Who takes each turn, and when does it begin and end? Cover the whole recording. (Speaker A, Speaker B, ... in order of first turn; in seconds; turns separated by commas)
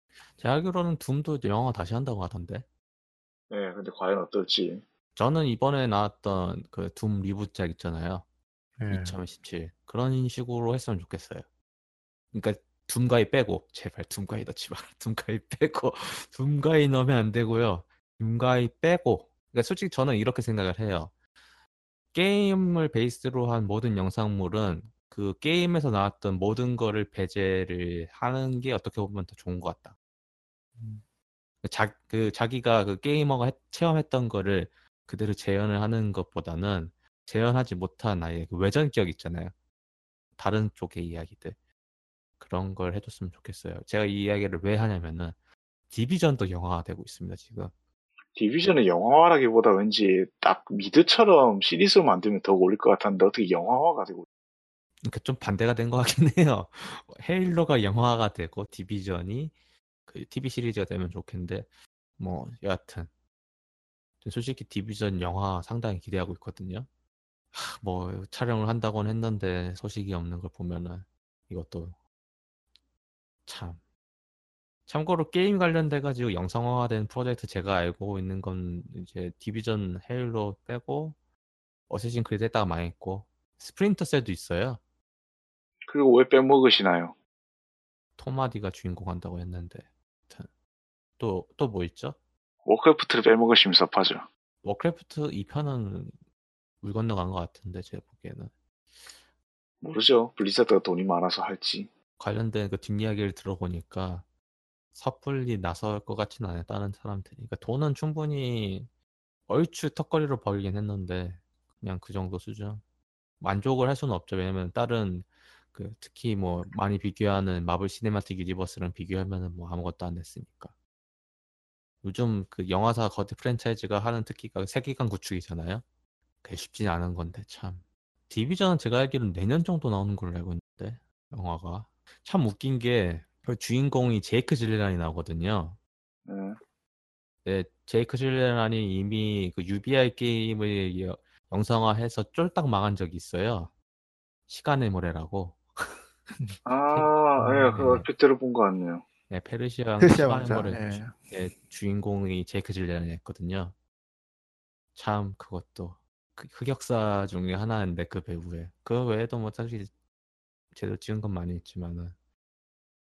Speaker A: 0.4-2.7, Speaker B: 3.5-4.8, Speaker A: 5.2-8.2, Speaker C: 8.8-9.2, Speaker A: 8.9-11.5, Speaker A: 12.3-21.1, Speaker A: 22.1-29.9, Speaker C: 30.8-31.0, Speaker A: 31.6-39.5, Speaker A: 40.4-41.6, Speaker A: 42.4-45.4, Speaker A: 45.9-47.7, Speaker B: 48.4-54.3, Speaker A: 55.0-59.5, Speaker A: 60.1-63.1, Speaker A: 64.2-66.9, Speaker A: 67.5-72.0, Speaker A: 73.5-73.8, Speaker A: 74.9-81.2, Speaker A: 81.9-84.8, Speaker B: 85.9-87.2, Speaker A: 88.2-90.5, Speaker A: 91.2-92.2, Speaker B: 92.7-94.3, Speaker A: 94.6-96.2, Speaker A: 96.8-98.5, Speaker B: 99.8-101.9, Speaker A: 102.2-104.3, Speaker A: 104.9-108.9, Speaker A: 109.5-112.8, Speaker A: 113.4-120.7, Speaker A: 122.0-125.8, Speaker A: 126.4-135.8, Speaker B: 136.3-136.6, Speaker A: 137.4-143.7, Speaker A: 144.5-146.0, Speaker B: 146.7-149.1, Speaker A: 146.9-148.1, Speaker A: 149.3-153.8, Speaker C: 150.0-151.2, Speaker A: 154.9-159.9, Speaker A: 160.7-162.2